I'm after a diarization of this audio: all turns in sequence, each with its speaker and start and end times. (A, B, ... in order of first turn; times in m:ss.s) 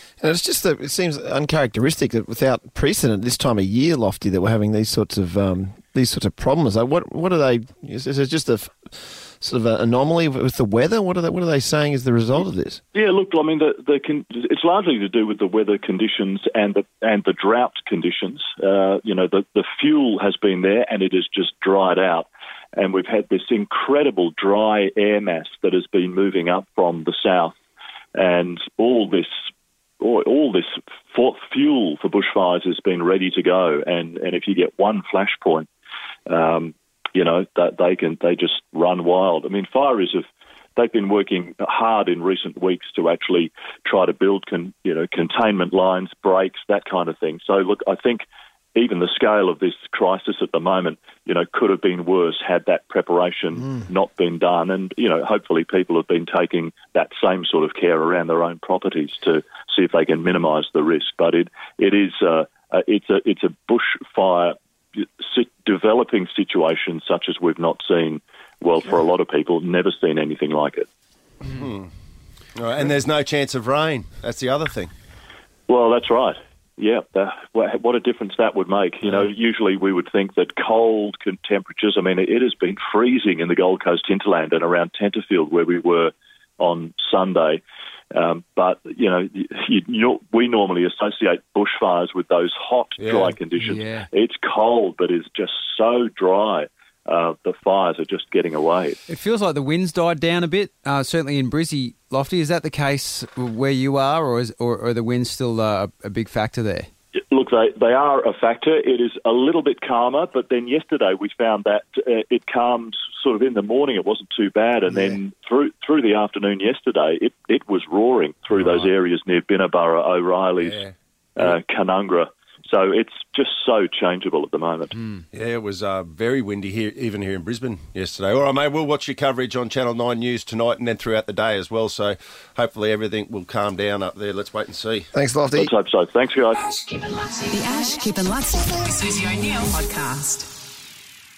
0:00.2-0:12.8 A
0:12.9-0:27.6 B
0:28.1-0:29.3 B
0:30.0-0:35.7 B
0:36.3-0:40.2 B
0:40.8-1:10.9 B
1:11.4-1:11.9 C
1:12.5-1:14.9 C
1:15.7-1:39.0 B
1:33.0-1:33.4 C
1:33.6-1:34.1 D
1:39.1-1:46.9 D
1:47.3-2:00.8 B
1:58.6-1:58.9 C
2:00.6-2:00.9 C
2:01.4-2:05.0 B
2:05.3-2:15.1 C
2:15.1-2:15.7 A
2:15.6-2:16.6 B
2:16.7-2:20.5 E